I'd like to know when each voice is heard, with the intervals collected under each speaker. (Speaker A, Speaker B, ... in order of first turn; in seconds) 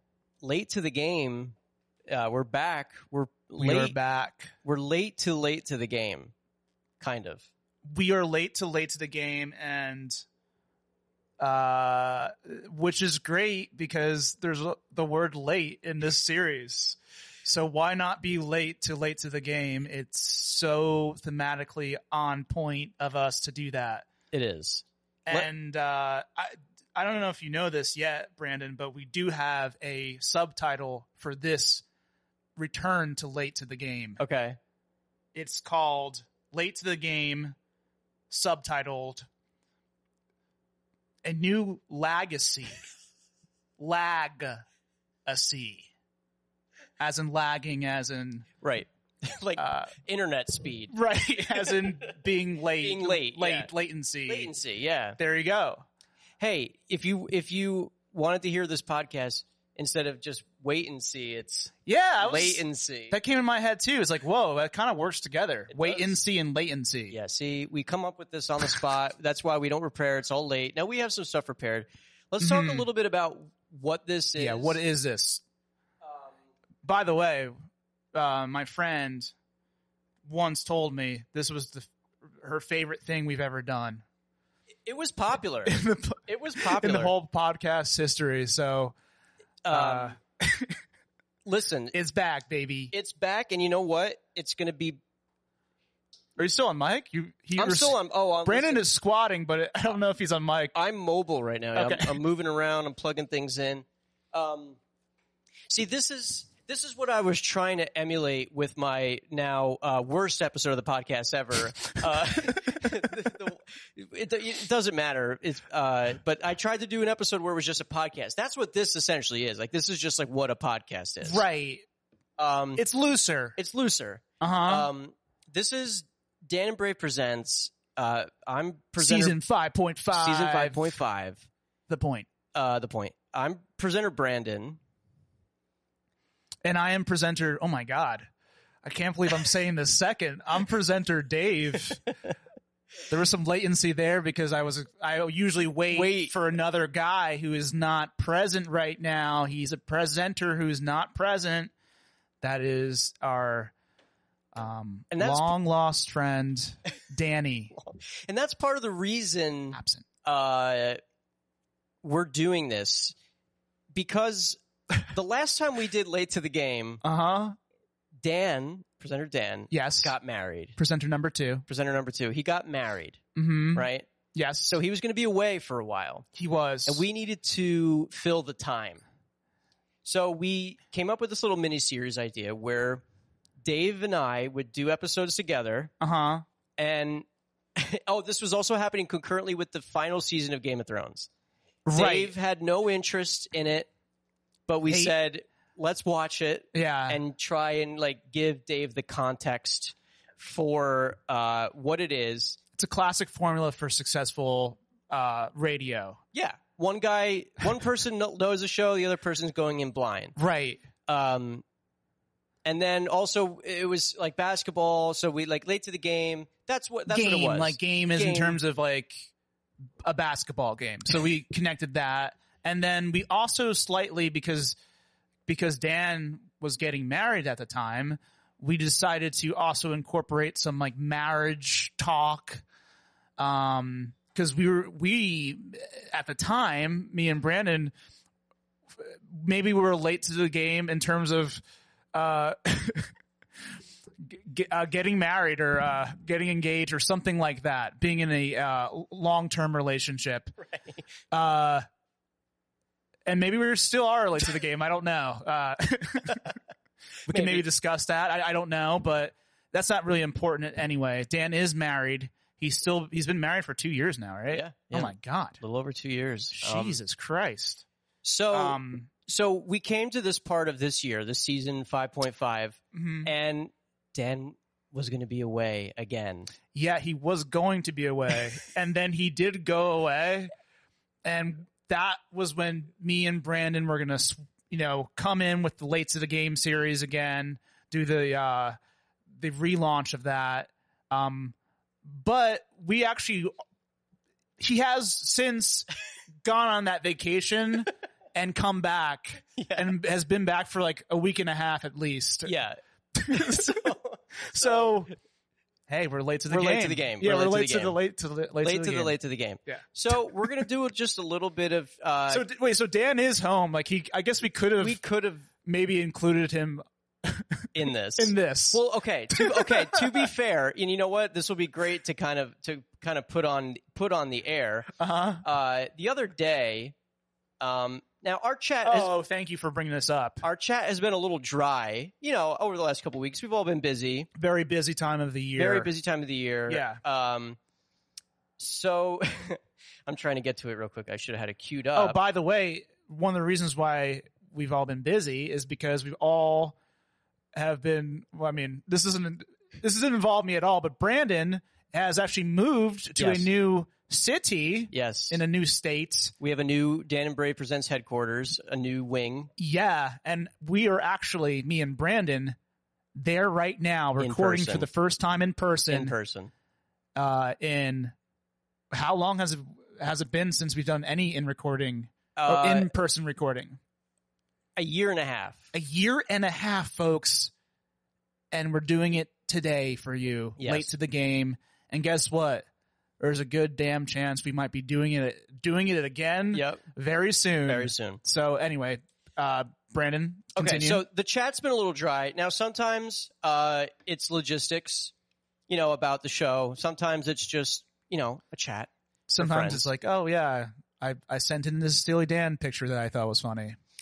Speaker A: 0.4-1.5, 2.1-4.0, 4.6-6.3, 7.0-7.5, 24.3-25.5, 34.2-34.6, 48.6-50.9, 52.8-53.7, 54.3-55.2, 56.4-63.2, 65.7-66.1, 67.1-74.8, 84.9-87.1, 89.6-90.2, 91.4-91.9, 92.9-95.0, 97.6-98.8, 100.7-104.8, 105.7-121.4, 122.4-122.8, 123.6-129.3, 130.1-131.5, 132.5-134.8, 145.9-146.3, 155.1-155.5, 157.7-161.0, 162.0-163.2, 163.9-167.0, 168.2-170.8, 171.7-173.2, 173.7-174.1, 174.7-176.3, 176.8-179.0, 180.0-183.0, 183.6-185.9, 186.8-191.3, 191.9-193.9, 194.7-202.6, 206.3-210.4, 211.1-211.6, 212.7-218.6, 250.6-251.1, 257.3-257.6, 264.5-267.0, 268.2-276.5, 299.6-299.9, 302.4-305.1, 306.5-308.0, 308.6-312.4, 314.8-315.5, 317.7-326.9, 327.6-329.1, 330.4-334.3, 335.6-337.6, 338.6-342.2, 353.2-353.5, 354.9-355.4, 356.4-359.5, 364.2-364.9, 365.9-366.5, 372.4-372.9, 374.8-375.6, 380.6-380.9, 386.5-386.8, 387.7-388.2, 390.6-395.1, 395.7-399.9
Speaker B: 3.6-4.5, 7.8-10.2, 11.4-24.1, 25.3-31.8, 32.5-34.2, 35.3-37.5, 38.3-39.3, 41.2-42.8, 43.8-44.6, 45.3-45.9, 47.0-48.5, 49.6-49.9, 50.9-54.5, 55.2-55.8, 61.9-67.2, 72.4-72.9, 74.4-75.4, 76.8-77.5, 78.1-79.3, 80.2-84.0, 85.7-88.9, 89.7-90.8, 91.9-92.9, 96.4-100.7, 101.8-102.2, 121.2-121.8, 122.8-123.6, 124.4-124.9, 129.0-130.9, 131.9-132.3, 136.6-138.3, 138.8-142.1, 143.1-151.7, 152.4-153.7, 154.5-157.7, 159.7-160.1, 167.0-167.6, 169.7-170.1, 170.8-171.7, 173.3-174.8, 176.3-177.0, 186.0-186.4, 191.8-192.3, 194.9-195.1, 196.7-197.2, 202.8-206.2, 210.4-210.8, 217.1-219.3, 220.0-224.8, 225.5-232.6, 233.4-237.9, 239.0-241.6, 242.1-243.1, 244.2-250.5, 251.3-251.8, 253.2-256.6, 257.3-265.6, 266.6-267.9, 268.5-269.1, 272.9-273.3, 276.7-280.5, 281.2-288.8, 289.3-293.5, 294.6-295.9, 296.4-302.5, 303.1-303.8, 304.4-305.1, 305.9-309.1, 309.7-310.6, 312.3-315.0, 315.6-320.3, 325.0-325.4, 328.8-330.4, 334.4-335.9, 336.7-337.0, 341.9-346.8, 347.6-356.3, 359.6-362.6, 363.1-366.1, 367.1-368.1, 368.9-373.8, 375.7-377.5, 378.5-382.6, 383.2-391.0, 399.3-403.8